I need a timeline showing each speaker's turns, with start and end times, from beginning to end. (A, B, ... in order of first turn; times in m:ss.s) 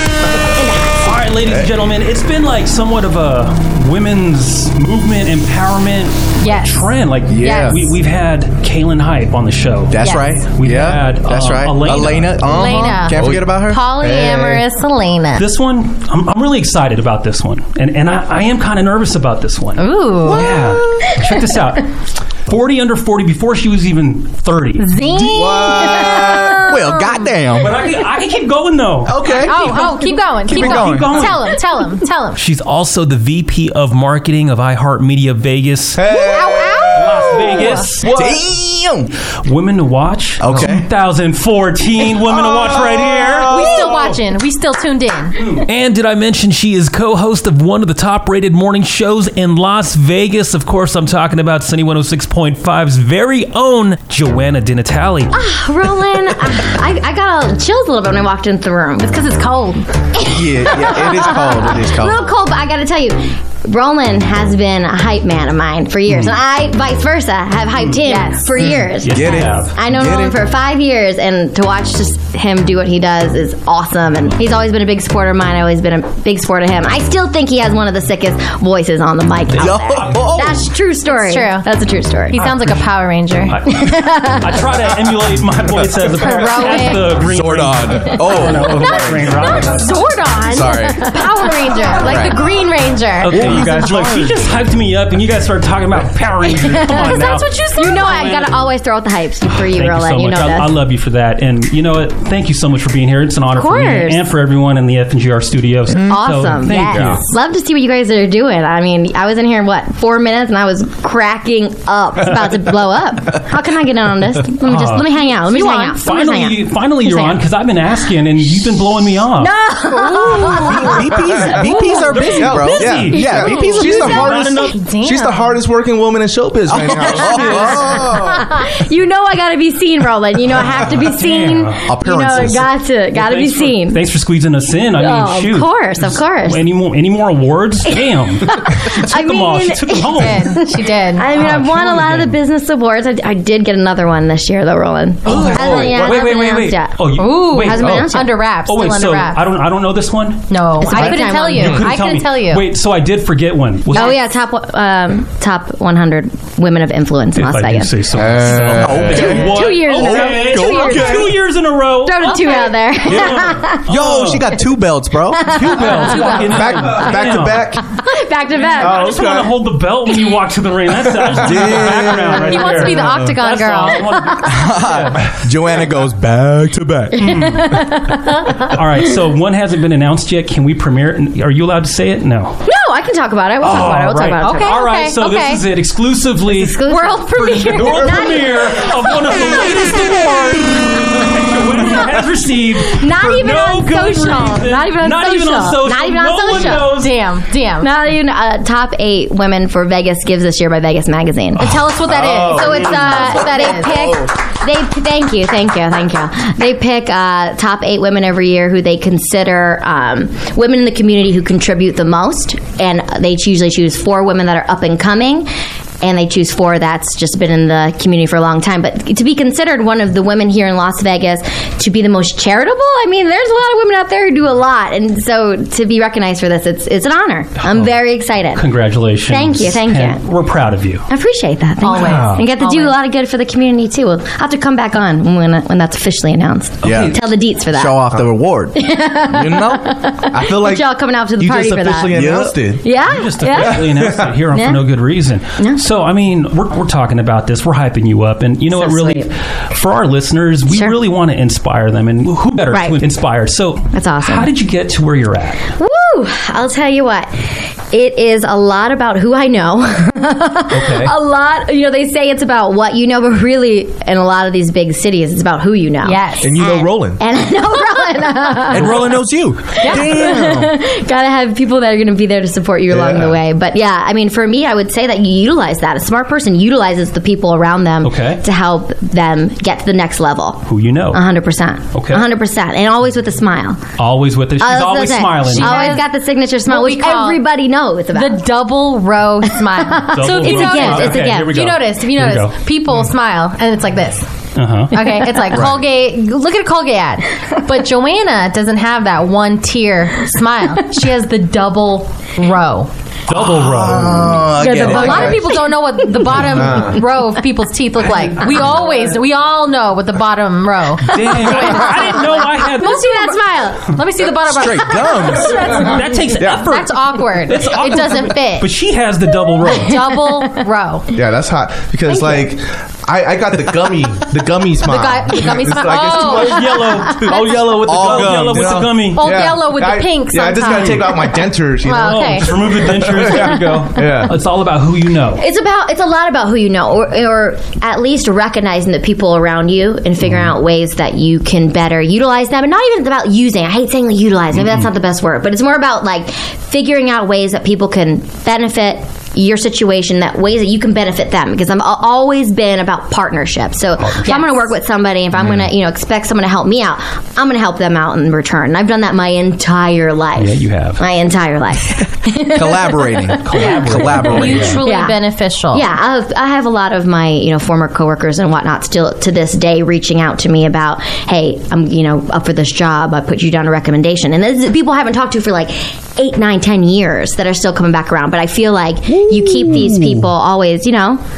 0:01.0-0:12.9 A
0:06.4-0:06.8 B
0:07.3-0:07.9 C
0:07.4-0:07.7 B
0:09.9-0:14.6 C
0:10.0-0:10.4 B
0:12.4-0:13.5 D
0:12.6-0:15.4 B
0:15.4-0:24.9 A
0:19.8-0:20.4 B
0:20.2-0:21.1 C
0:24.8-0:27.3 B
0:25.0-0:27.8 C
0:27.6-0:31.6 A
0:29.0-0:31.3 C
0:29.4-0:32.4 B
0:32.4-0:36.0 A
0:36.0-0:38.4 D
0:36.1-0:37.9 B
0:36.9-0:38.0 A
0:38.1-0:39.1 C
0:39.4-0:43.9 A
0:40.4-0:40.8 C
0:40.5-0:40.8 D
0:42.2-0:44.2 D
0:43.5-0:45.4 B
0:45.4-0:55.4 A
0:55.3-0:59.1 E
0:59.0-0:59.8 B
1:00.2-1:22.4 E
1:00.2-1:02.3 C
1:08.0-1:08.6 B
1:09.0-1:09.7 A
1:09.0-1:10.4 C
1:19.5-1:20.6 C
1:19.6-1:20.2 A
1:21.1-1:21.7 B
1:22.3-1:24.1 B
1:22.4-1:22.8 A
1:23.4-1:30.0 A
1:23.9-1:24.4 E
1:26.2-1:27.0 B
1:27.2-1:29.6 C
1:28.7-1:34.3 B
1:30.5-1:31.0 C
1:31.0-1:32.2 E
1:31.9-1:32.4 C
1:33.2-1:38.4 A
1:33.3-1:34.2 C
1:36.6-1:38.5 B
1:37.8-1:40.7 E
1:39.5-1:47.3 A
1:43.5-1:44.2 E
1:45.9-1:46.2 C
1:46.0-1:57.4 E
1:54.6-1:55.1 A
1:55.5-1:56.0 B
1:55.8-1:59.5 A
1:59.4-2:01.1 E
2:00.0-2:04.2 C
2:02.1-2:04.8 A
2:02.4-2:08.3 D
2:03.4-2:05.6 B
2:06.7-2:08.4 C
2:07.0-2:14.0 E
2:10.8-2:11.8 A
2:11.8-2:12.7 C
2:13.1-2:20.6 A
2:15.0-2:16.6 E
2:17.9-2:28.4 E
2:20.1-2:21.3 B
2:21.3-2:22.4 A
2:25.2-2:28.1 A
2:25.5-2:25.9 D
2:27.1-2:29.4 B
2:28.6-2:30.8 A
2:30.5-2:32.6 B
2:30.8-2:31.8 E
2:31.5-2:34.2 A
2:33.9-2:38.0 E
2:37.3-2:44.5 A
2:38.1-2:39.4 D
2:38.7-2:41.3 C
2:39.2-2:41.4 E
2:42.0-2:43.8 E
2:42.3-2:42.7 B
2:43.1-2:45.6 C
2:45.3-2:46.4 E
2:45.5-2:47.8 A
2:46.4-2:47.8 D
2:48.0-2:49.1 E
2:48.5-2:48.8 B
2:48.8-2:55.2 A
2:48.8-2:49.5 D
2:51.3-2:52.4 C
2:52.4-2:54.4 B
2:54.4-2:57.5 C
2:57.2-2:59.1 E
2:57.2-2:57.6 A
2:58.7-3:02.6 A
3:02.6-3:04.9 E
3:03.6-3:17.2 A
3:04.4-3:05.6 B
3:06.4-3:09.7 E
3:06.8-3:08.2 B
3:11.8-3:12.1 E
3:12.8-3:17.0 E
3:13.9-3:14.6 B
3:16.4-3:17.9 B
3:17.8-3:21.7 E
3:21.6-3:24.0 B
3:22.0-3:24.2 D
3:22.5-3:35.5 E
3:36.0-3:48.6 E
3:47.6-3:47.9 A
3:48.5-3:51.1 A
3:49.3-3:50.2 E
3:51.1-3:58.0 E
3:51.8-3:53.0 B
3:51.9-3:52.5 C
3:56.8-3:57.2 A
3:56.8-3:57.1 C
3:57.7-4:00.0 C
3:58.7-4:02.2 E
4:00.3-4:02.9 D
4:02.1-4:02.6 C
4:02.8-4:03.8 E
4:03.0-4:15.6 A
4:03.5-4:04.3 D
4:04.5-4:04.8 E
4:08.7-4:09.3 E
4:10.7-4:11.0 E
4:12.7-4:13.0 E
4:13.9-4:14.5 E
4:15.7-4:17.3 E
4:17.9-4:29.0 E
4:20.7-4:21.1 A
4:26.0-4:26.5 B
4:26.4-4:27.2 D
4:28.0-4:28.8 B
4:28.7-4:30.8 C
4:29.8-4:43.8 E
4:29.8-4:30.0 B
4:32.9-4:33.4 D
4:38.0-4:38.4 A
4:40.7-4:41.2 A
4:41.9-4:42.2 A
4:44.0-4:46.0 A
4:44.6-4:48.5 E
4:45.5-4:46.1 B
4:46.6-4:47.4 B
4:48.1-4:54.3 B
4:49.5-4:51.6 E
4:50.1-4:52.5 A
4:54.6-4:55.6 A
4:54.9-5:02.9 B
5:03.3-5:04.4 A
5:03.3-5:05.4 C
5:04.6-5:18.7 B
5:04.8-5:05.3 D
5:04.8-5:06.4 E
5:06.4-5:07.0 D
5:08.1-5:08.8 A
5:11.0-5:13.4 A
5:14.4-5:15.7 C
5:15.6-5:20.0 A
5:19.6-5:21.0 B
5:21.1-5:34.3 D
5:24.8-5:27.7 B
5:26.2-5:29.3 A
5:27.8-5:29.0 C
5:29.1-5:32.5 B
5:30.7-5:31.0 A
5:31.9-5:35.4 A
5:35.4-6:04.2 E
5:54.0-5:54.6 A
6:00.4-6:01.0 A
6:02.5-6:04.8 C
6:03.4-6:04.8 A
6:04.2-6:05.9 B
6:04.8-6:05.2 E
6:05.7-6:21.2 E
6:19.7-6:20.2 C